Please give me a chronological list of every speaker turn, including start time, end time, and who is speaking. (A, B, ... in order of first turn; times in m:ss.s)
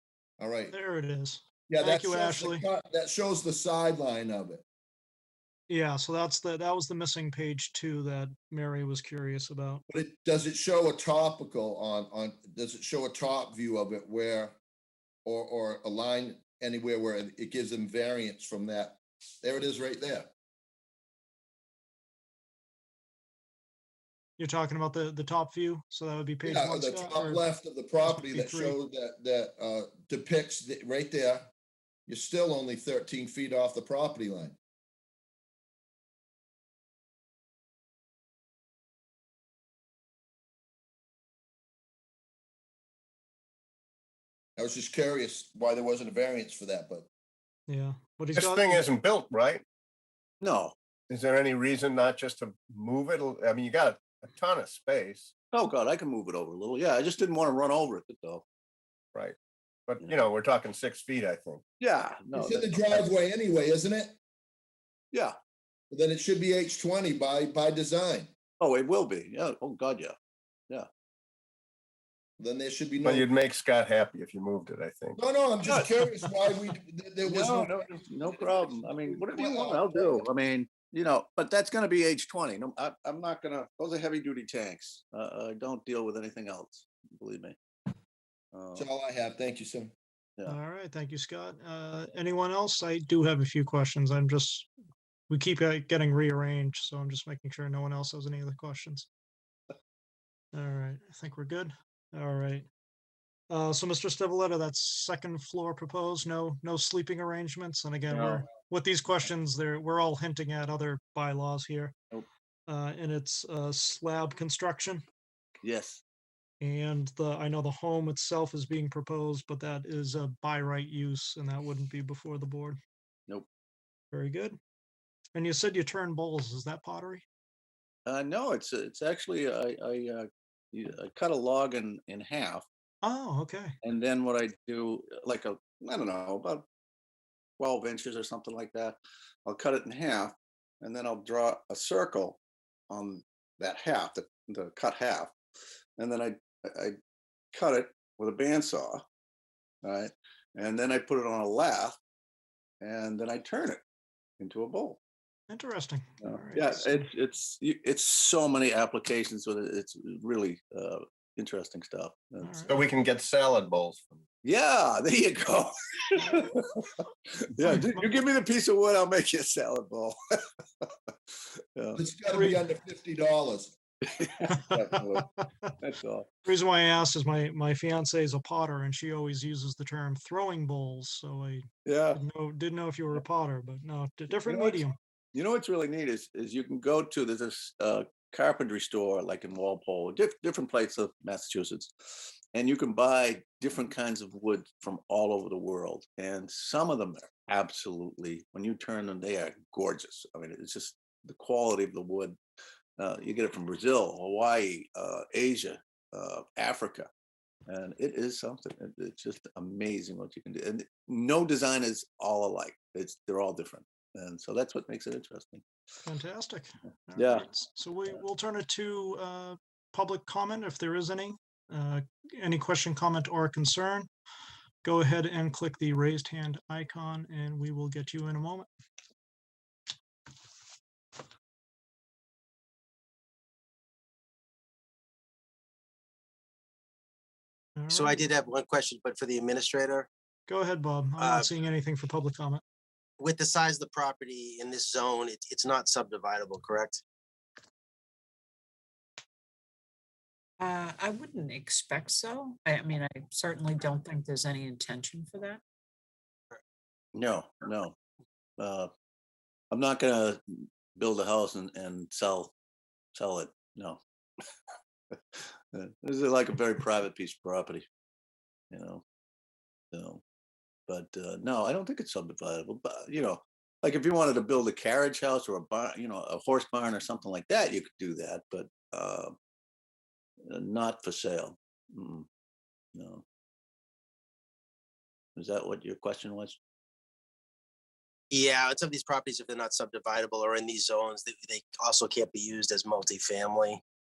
0:00.4-0:00.7 A
0:00.7-0:02.6 B
0:01.7-0:04.6 A
0:05.7-0:09.8 B
0:09.9-0:14.6 A
0:15.2-0:20.3 A
0:24.4-0:27.4 B
0:26.5-0:31.5 A
0:28.0-0:28.8 B
0:32.1-0:34.6 A
0:44.6-0:47.1 A
0:47.7-0:48.8 B
0:48.4-0:49.6 C
0:50.4-0:50.7 D
0:51.1-0:55.3 C
0:55.5-0:58.4 D
0:59.9-1:01.6 C
1:01.8-1:03.1 D
1:02.3-1:04.2 A
1:05.9-1:08.3 A
1:08.6-1:10.1 D
1:12.4-1:13.3 A
1:13.0-1:15.2 C
1:15.2-1:17.7 A
1:15.6-1:16.3 D
1:17.2-1:27.6 D
1:19.0-1:20.2 A
1:28.5-1:28.9 D
1:28.7-1:29.9 A
1:30.4-1:34.7 B
1:35.3-1:39.1 B
1:40.5-1:42.6 B
1:43.5-1:52.0 B
1:48.1-1:48.4 D
1:52.7-1:55.0 B
1:55.6-1:56.0 D
1:56.6-2:02.8 B
2:04.1-2:04.6 B
2:05.3-2:07.2 B
2:08.0-2:12.6 D
2:13.0-2:13.7 B
2:13.8-2:16.6 D
2:17.6-2:22.4 D
2:22.9-2:25.3 D
2:26.0-2:27.0 D
2:27.5-2:29.0 D
2:29.8-2:32.0 D
2:32.8-2:33.8 D
2:34.4-2:35.0 D
2:35.5-2:37.0 B
2:36.2-2:42.6 D
2:42.4-2:42.7 B
2:42.7-2:44.2 C
2:44.4-2:46.9 D
2:47.4-2:50.2 D
2:47.6-2:48.1 B
2:52.0-2:53.7 A
2:52.3-2:52.6 B
2:54.0-2:55.3 D
2:54.5-2:55.7 B
2:55.8-2:56.3 D
2:56.4-3:05.0 B
3:01.8-3:02.2 D
3:04.4-3:04.8 D
3:05.3-3:11.9 D
3:12.5-3:22.4 D
3:23.0-3:27.1 D
3:27.7-3:35.6 D
3:36.0-3:44.1 B
3:37.2-3:37.5 D
3:44.8-3:48.7 B
3:57.8-3:58.3 B
3:57.9-4:00.1 E
4:00.5-4:02.6 B
4:01.2-4:01.5 E
4:03.2-4:07.0 E
4:10.6-4:15.6 F
4:17.1-4:17.9 D
4:18.6-4:18.9 D
4:19.7-4:22.5 D
4:23.1-4:24.0 D
4:25.3-4:27.8 D
4:28.7-4:29.0 D
4:29.9-4:30.2 D
4:30.9-4:39.3 D
4:40.4-4:42.2 D
4:42.9-4:43.2 D
4:45.4-4:46.6 D
4:48.3-4:53.8 E